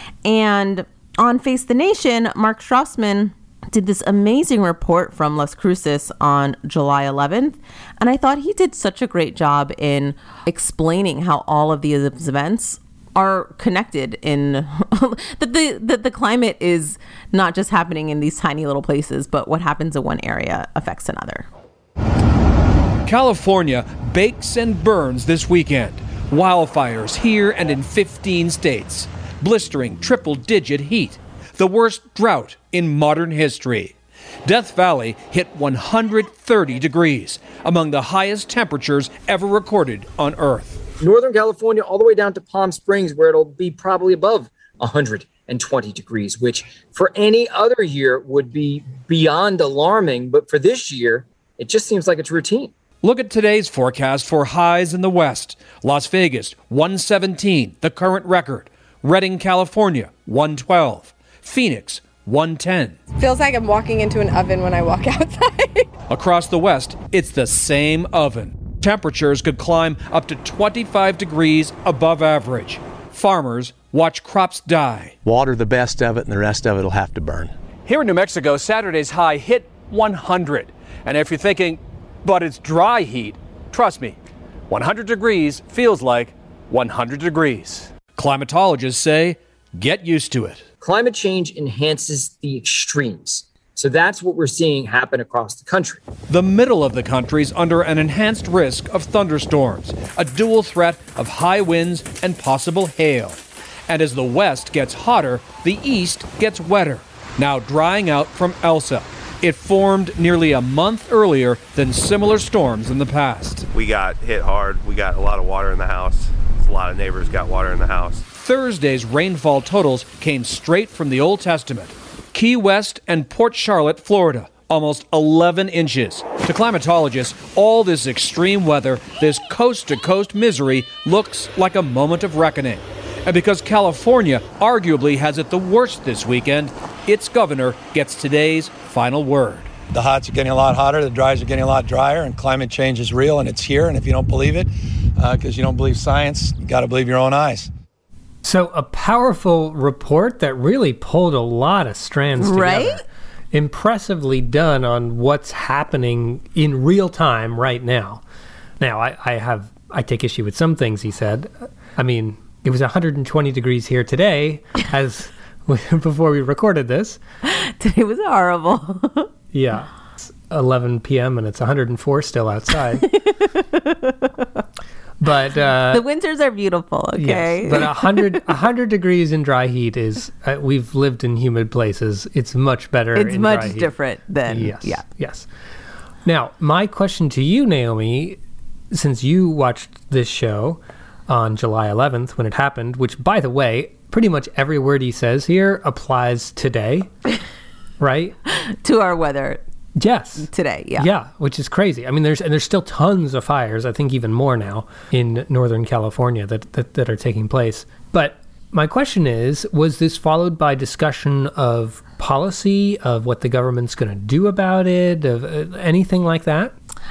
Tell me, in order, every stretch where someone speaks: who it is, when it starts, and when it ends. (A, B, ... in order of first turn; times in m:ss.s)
0:00.2-0:21.5 A
0:23.0-0:40.8 B
0:41.0-0:52.7 C
0:53.0-1:03.0 B
1:03.1-1:05.9 D
1:06.1-1:15.2 B
1:15.2-1:17.5 E
1:17.8-1:24.2 B
1:24.7-1:30.6 B
1:30.8-1:36.0 C
1:36.3-1:53.7 B
1:53.7-1:58.2 F
1:58.3-2:19.8 B
2:19.8-2:27.7 G
2:28.4-2:38.2 H
2:32.4-2:33.0 A
2:38.8-2:47.2 H
2:47.4-2:49.3 A
2:49.5-2:53.1 H
2:53.0-2:54.4 A
2:55.2-2:56.0 H
2:55.9-2:58.4 A
2:57.2-3:03.9 H
3:03.1-3:05.0 A
3:04.4-3:05.5 H
3:06.2-3:08.4 H
3:08.9-3:17.1 H
3:18.0-3:18.4 H
3:18.5-3:19.6 A
3:20.0-3:36.7 H
3:20.4-3:21.1 A